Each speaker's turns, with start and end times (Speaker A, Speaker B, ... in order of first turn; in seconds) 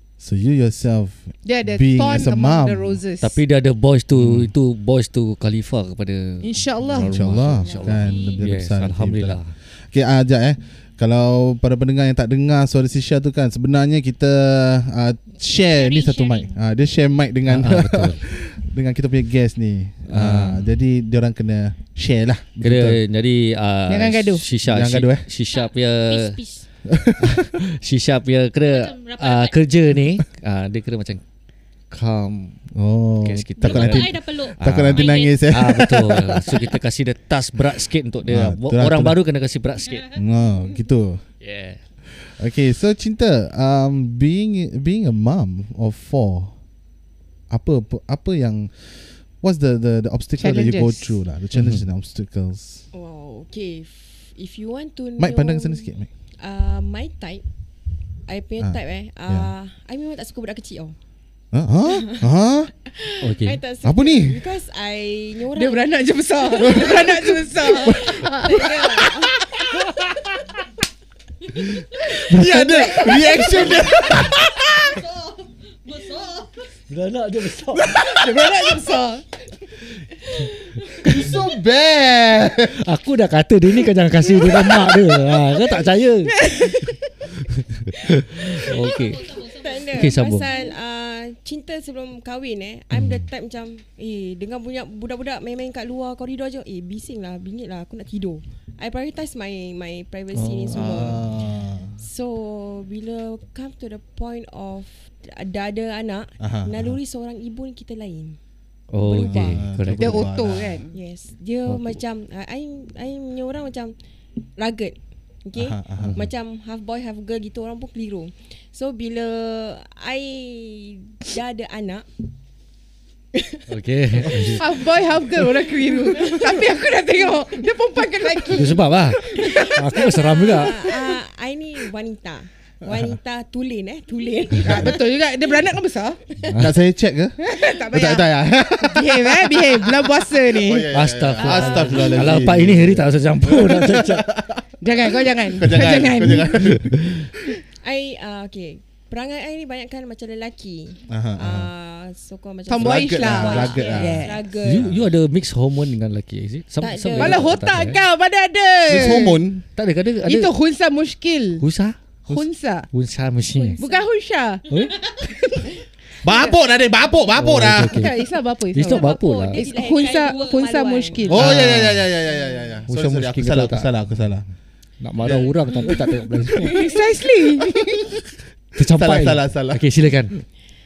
Speaker A: 0.2-3.0, 4.1-4.5, 7.0-23.0, 24.6-25.2, 26.9-27.4, 32.7-36.7, 38.2-39.2, 40.1-41.2, 42.1-46.5, 47.5-52.9, 55.2-56.1, 58.6-59.5, 61.5-62.7, 63.8-64.4, 66.6-67.1, 71.9-75.0, 78.1-78.7, 80.9-82.8, 100.7-102.0, 106.4-107.0, 109.2-110.9, 115.5-116.2, 132.8-133.1, 136.6-147.2, 151.1-151.7, 152.7-155.1, 158.9-159.6, 166.2-168.1, 171.3-174.5, 175.2-176.1, 178.8-179.8
Speaker B: 1.4-3.4, 6.4-7.9, 23.9-24.4, 50.4-51.2, 65.5-69.3, 77.8-79.2, 84.5-85.1, 86.2-86.9, 110.0-110.9, 124.3-131.1, 134.6-136.2, 137.4-140.9, 144.8-146.8, 152.7-154.4, 157.2-159.4, 160.2-161.6, 162.3-162.9, 163.8-165.7, 167.8-171.5, 176.7-178.2
Speaker C: 3.2-9.5, 17.4-18.2, 20.1-20.6, 22.6-26.4, 27.2-31.2, 31.9-32.7, 33.2-40.2, 41.4-41.8, 51.5-51.8, 63.2-63.6, 72.3-73.0, 76.9-77.9, 82.7-86.9, 87.9-89.4, 89.9-90.5, 92.9-93.2, 100.3-101.1, 108.9-110.3, 116.0-116.3, 123.7-124.9, 128.5-130.8, 136.4-136.8, 140.9-144.3, 146.2-147.2, 154.6-158.0, 159.7-160.5, 161.6-162.0, 162.9-163.8, 164.7-165.0, 167.3-168.1, 168.7-169.6, 171.4-172.0, 172.9-173.9, 175.0-176.9, 178.7-180.3
Speaker D: 7.8-8.4, 15.7-16.5, 25.5-26.7, 28.6-29.6, 33.6-35.8, 76.0-76.4, 88.8-90.7
Speaker E: 52.9-57.4, 58.2-61.0, 61.9-62.3, 62.8-69.4, 89.3-101.2, 102.0-108.4, 109.0-109.7, 110.9-113.9, 114.6-122.0, 130.4-135.0, 141.4-142.2, 147.8-154.9, 156.8-157.6, 163.5-164.1, 168.9-171.4, 176.6-177.1